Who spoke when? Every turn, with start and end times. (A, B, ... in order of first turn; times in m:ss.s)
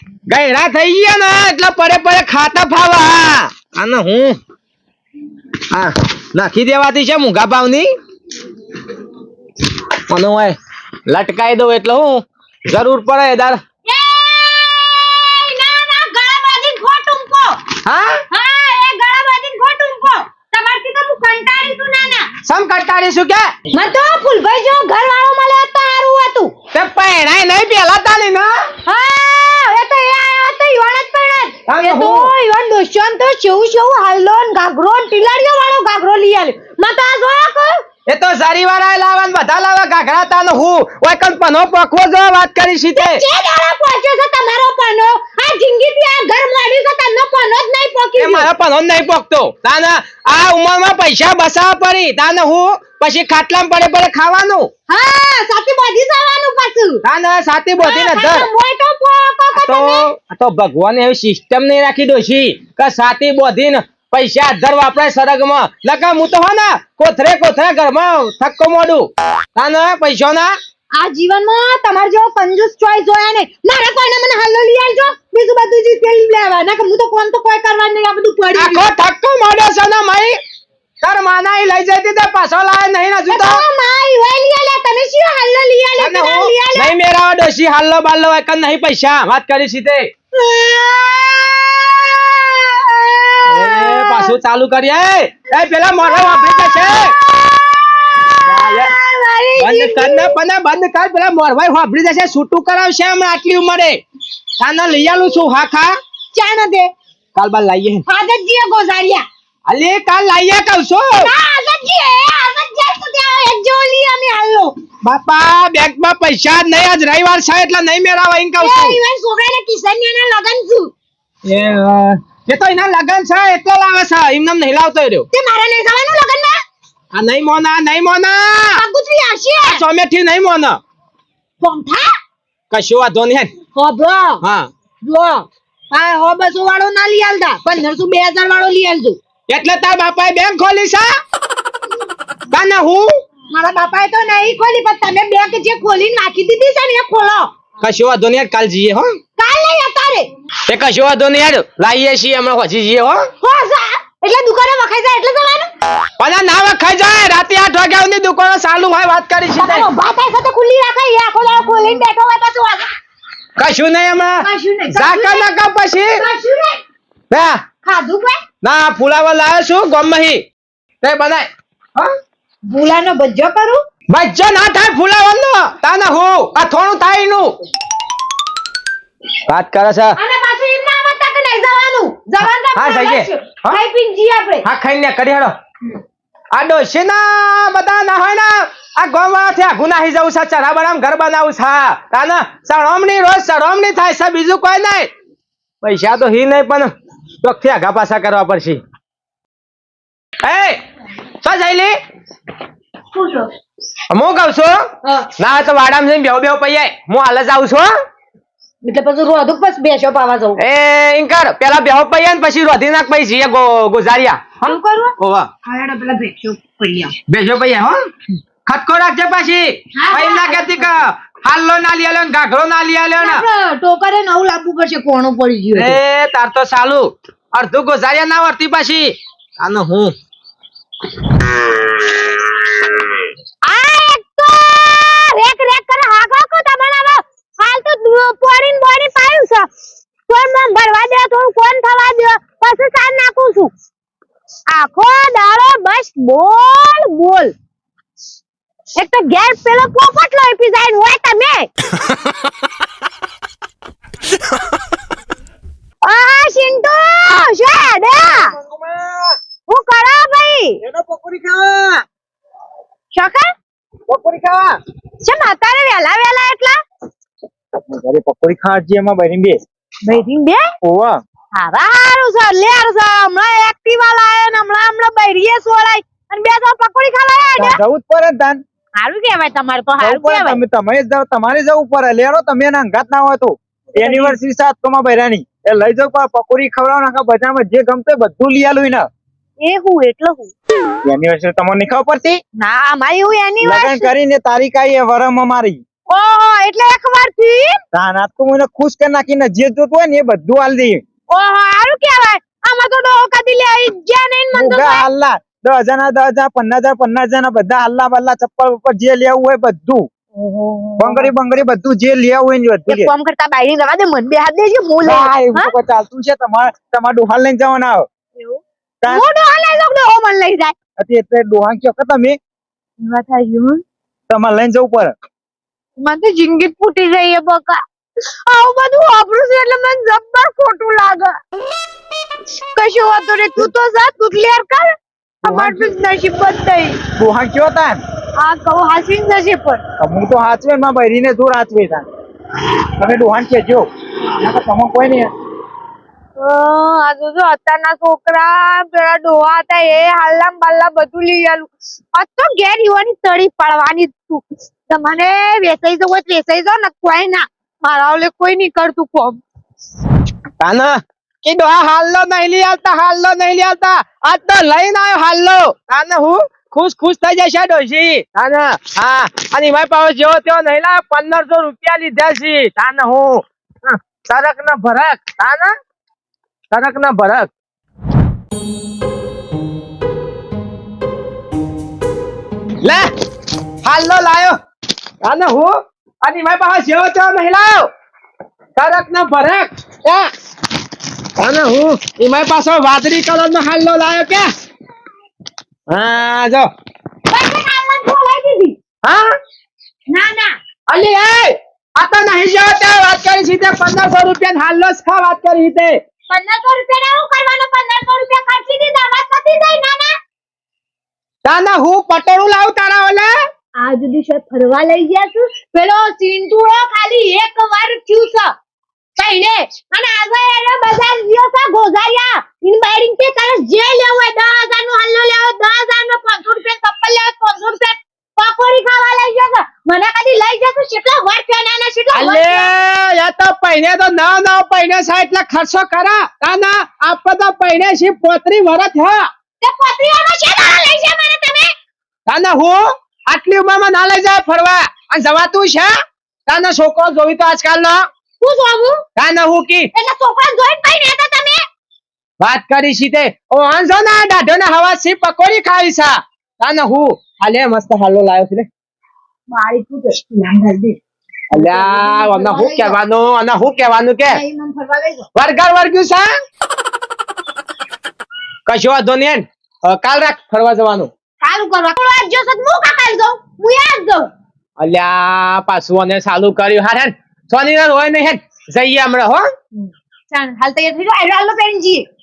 0:00.3-0:04.4 A
0:05.7-0:07.9 A
0:10.1-0:10.6 A
0:11.1-0:13.6 A
0:13.8-0:17.6 B
0:17.8-0:18.2 A
0:18.3-0:22.3 B
0:22.4-0:23.5 A
0:23.7-0:26.5 B
0:26.7-0:28.5 A
0:28.8-0:37.8 B
0:31.7-0:32.3 A
0:38.1-0:43.2 A
0:42.9-0:48.5 B
0:48.2-0:54.7 A
0:54.9-0:57.0 B
0:57.0-0:58.5 A
0:57.8-1:00.1 B
0:59.5-1:10.5 A
1:10.9-1:18.8 B
1:18.5-1:20.4 A
1:21.0-1:23.6 A
1:23.3-1:26.9 B
1:26.0-1:30.1 A
1:30.3-1:34.4 B
1:33.5-1:37.2 A
1:36.0-1:40.4 B
1:38.4-1:38.9 A
1:39.6-1:44.0 A
1:44.6-1:46.0 A
1:46.3-1:46.9 B
1:47.4-1:48.0 A
1:48.1-1:49.2 B
1:49.7-1:51.3 A
1:51.1-1:54.7 B
1:55.0-1:59.0 A
1:58.6-2:00.9 B
2:01.4-2:05.3 A
2:05.3-2:06.6 B
2:07.1-2:08.8 A
2:08.7-2:09.8 B
2:09.7-2:10.8 A
2:11.6-2:12.1 B
2:12.7-2:13.5 A
2:13.7-2:14.4 B
2:14.4-2:14.7 A
2:15.0-2:19.2 B
2:19.5-2:21.1 A
2:22.5-2:23.1 A
2:23.5-2:27.5 B
2:27.8-2:29.1 A
2:29.4-2:30.3 B
2:30.7-2:33.3 A
2:33.4-2:35.7 B
2:36.2-2:39.9 A
2:39.6-2:42.9 B
2:43.6-2:46.2 A
2:44.4-2:45.5 B
2:46.1-2:46.8 B
2:47.3-2:47.6 A
2:47.8-2:48.4 B
2:48.6-2:50.4 A
2:51.0-2:52.0 A
2:52.7-2:53.8 B
2:54.1-2:57.6 A
2:59.5-3:00.2 A
3:00.2-3:04.6 B
3:02.7-3:03.8 A
3:04.6-3:05.5 A
3:06.5-3:15.1 A
3:15.8-3:16.9 A
3:17.4-3:18.8 A
3:20.4-3:20.8 A
3:21.4-3:21.9 A
3:23.1-3:23.5 B
3:24.1-3:27.9 A
3:25.0-3:25.3 B
3:28.8-3:30.6 B
3:30.6-3:35.5 A
3:34.6-3:37.2 B
3:37.3-3:38.1 A
3:38.6-3:43.4 A
3:39.9-3:40.9 B
3:43.2-3:46.0 B
3:45.7-3:50.1 A
3:53.6-3:59.7 B
4:00.3-4:03.7 B
4:04.7-4:07.5 B
4:08.9-4:11.7 B
4:16.0-4:18.5 B
4:18.3-4:19.4 A
4:19.7-4:20.8 B
4:20.8-4:22.0 A
4:23.1-4:23.5 B
4:24.1-4:24.8 A
4:25.2-4:26.8 B
4:27.9-4:29.6 C
4:30.0-4:30.7 B
4:30.8-4:31.2 C
4:31.5-4:37.8 B
4:37.6-4:38.6 C
4:39.0-4:40.6 B
4:40.0-4:49.0 C
4:44.0-4:44.3 B
4:49.6-4:50.5 B
4:51.0-4:52.4 C
4:52.6-4:54.1 B
4:53.6-4:55.8 C
4:56.1-4:57.8 B
4:57.9-5:01.0 C
5:01.3-5:05.0 B
5:04.5-5:10.1 C
5:10.3-5:11.3 B
5:11.0-5:13.1 C
5:12.9-5:15.7 B
5:15.0-5:18.0 C
5:18.4-5:20.7 B
5:21.0-5:22.4 C
5:23.0-5:23.8 B
5:24.3-5:25.1 C
5:26.0-5:27.8 B
5:28.4-5:31.4 B
5:32.7-5:34.9 B
5:35.4-5:37.0 B
5:35.4-5:35.9 C
5:37.2-5:38.0 C
5:38.4-5:39.8 B
5:40.0-5:42.0 C
5:43.0-5:45.3 C
5:46.4-5:59.4 B
6:00.6-6:15.7 A
6:16.7-6:17.5 A
6:22.8-6:23.1 A
6:23.8-6:24.6 A
6:25.2-6:27.9 A
6:28.8-6:30.3 A
6:31.4-6:34.5 A
6:35.9-6:36.7 A
6:37.3-6:38.8 B
6:39.0-6:39.4 A
6:40.1-6:40.6 B
6:40.9-6:46.0 A
6:46.3-6:50.2 B
6:51.4-6:53.3 A
6:53.8-6:58.5 B
6:59.2-7:12.7 B
7:12.1-7:19.3 A
7:19.6-7:21.7 B
7:22.3-7:25.9 A
7:26.5-7:28.0 A
7:28.4-7:29.0 B
7:29.2-7:29.9 A
7:29.9-7:31.6 B
7:32.4-7:38.7 A
7:39.5-7:41.0 B
7:41.5-7:44.4 A
7:41.5-7:43.0 B
7:44.2-7:45.3 B
7:45.4-7:46.3 A
7:48.7-7:51.1 A
7:51.4-7:54.3 B
7:54.8-7:59.5 A
7:59.8-8:02.0 B